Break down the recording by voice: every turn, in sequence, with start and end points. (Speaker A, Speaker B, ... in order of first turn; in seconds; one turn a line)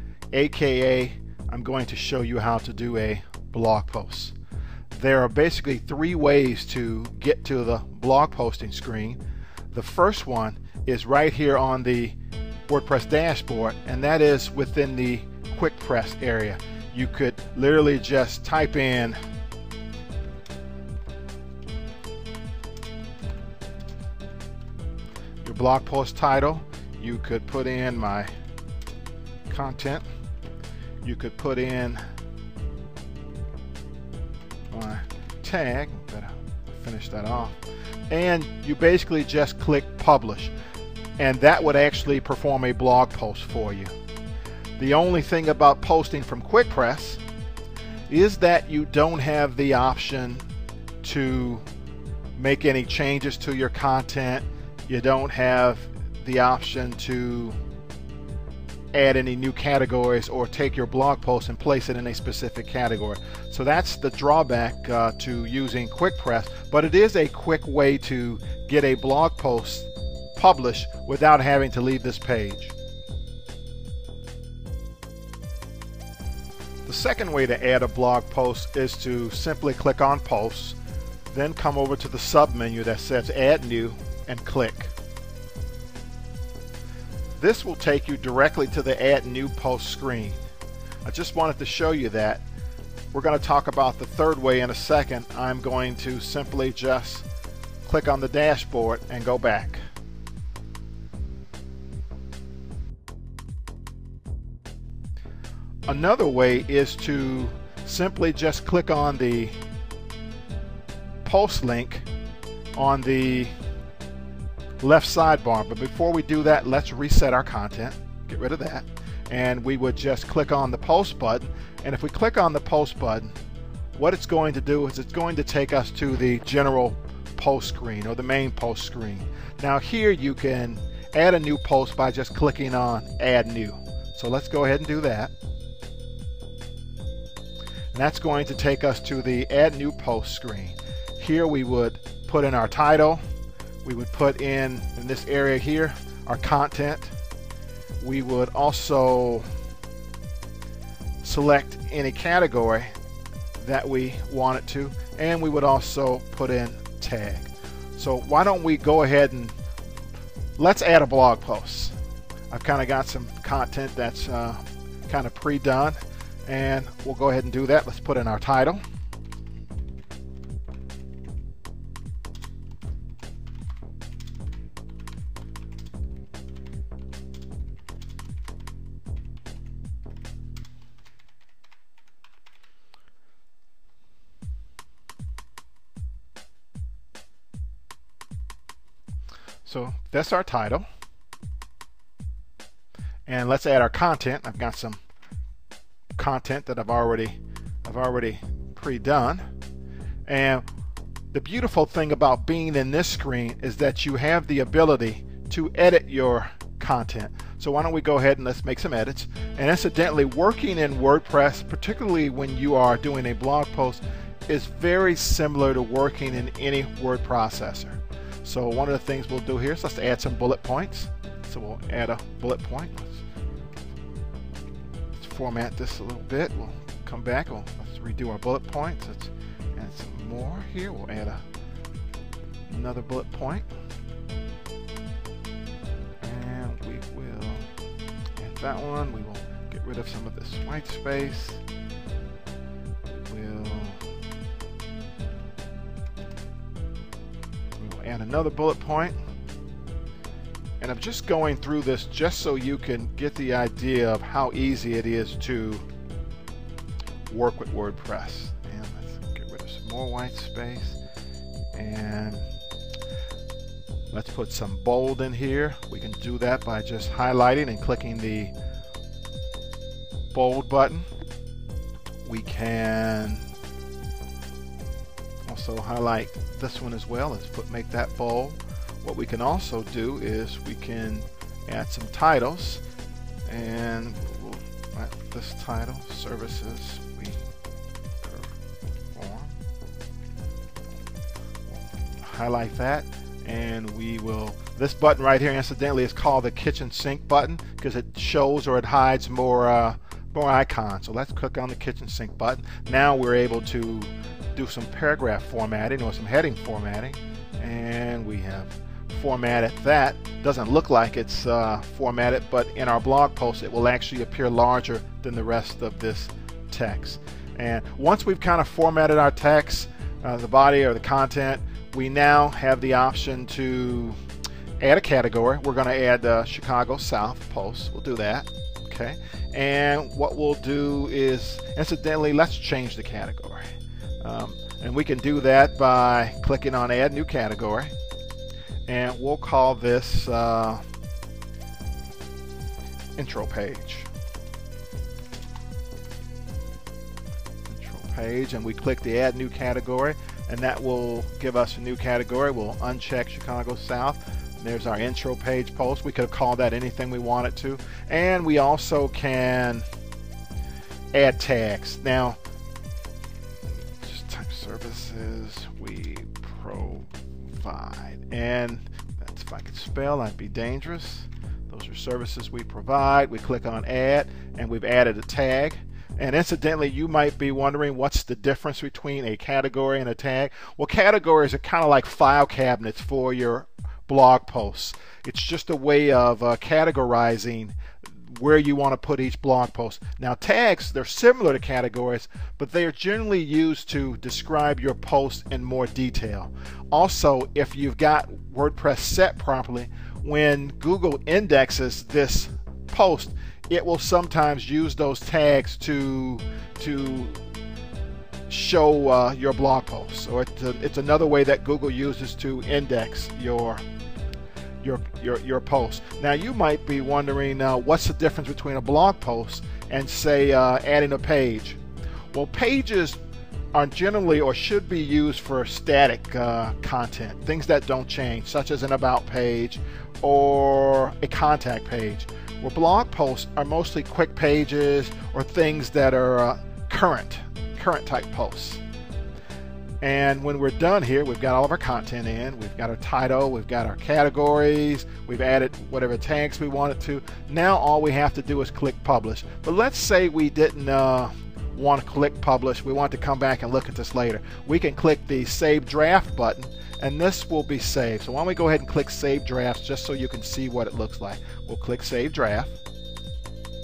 Speaker A: 0.3-4.3
Speaker A: 4.9-9.2
Speaker A: 9.7-12.2
Speaker A: 12.7-19.2
Speaker A: 25.4-28.3
Speaker A: 29.5-30.1
Speaker A: 31.0-32.0
Speaker A: 34.7-40.5
Speaker A: 41.2-43.9
Speaker A: 44.8-47.2
Speaker A: 48.1-50.5
Speaker A: 51.0-51.6
Speaker A: 52.4-57.6
Speaker A: 58.9-72.8
Speaker A: 76.8-80.8
Speaker A: 81.3-84.9
Speaker A: 87.4-90.4
Speaker A: 91.0-92.4
Speaker A: 93.1-97.3
Speaker A: 97.8-99.8
Speaker A: 105.9-109.5
Speaker A: 111.2-112.1
Speaker A: 112.8-113.5
Speaker A: 114.8-123.4
Speaker A: 124.0-135.3
Speaker A: 137.9-143.2
Speaker A: 143.8-147.1
Speaker A: 148.0-149.5
Speaker A: 151.2-152.9
Speaker A: 153.6-159.6
Speaker A: 160.6-161.9
Speaker A: 162.5-168.8
Speaker A: 189.7-190.9
Speaker A: 193.3-195.0
Speaker A: 196.2-199.5
Speaker A: 200.3-200.7
Speaker A: 201.3-223.2
Speaker A: 225.1-231.4
Speaker A: 232.7-233.7
Speaker A: 236.2-237.7
Speaker A: 238.4-241.6
Speaker A: 243.1-244.0
Speaker A: 247.8-249.2
Speaker A: 250.8-255.8
Speaker A: 257.3-261.0
Speaker A: 261.7-262.5
Speaker A: 264.1-268.5
Speaker A: 270.3-271.1
Speaker A: 272.2-273.5
Speaker A: 275.5-282.8
Speaker A: 283.5-287.4
Speaker A: 288.2-288.6
Speaker A: 289.1-289.5
Speaker A: 292.2-324.2
Speaker A: 324.8-333.6
Speaker A: 334.2-337.9
Speaker A: 338.9-340.8
Speaker A: 343.2-344.1
Speaker A: 347.7-359.9
Speaker A: 361.1-362.4
Speaker A: 364.0-407.4
Speaker A: 408.5-413.8
Speaker A: 414.8-421.8
Speaker A: 422.3-423.2
Speaker A: 423.7-438.8
Speaker A: 440.0-462.8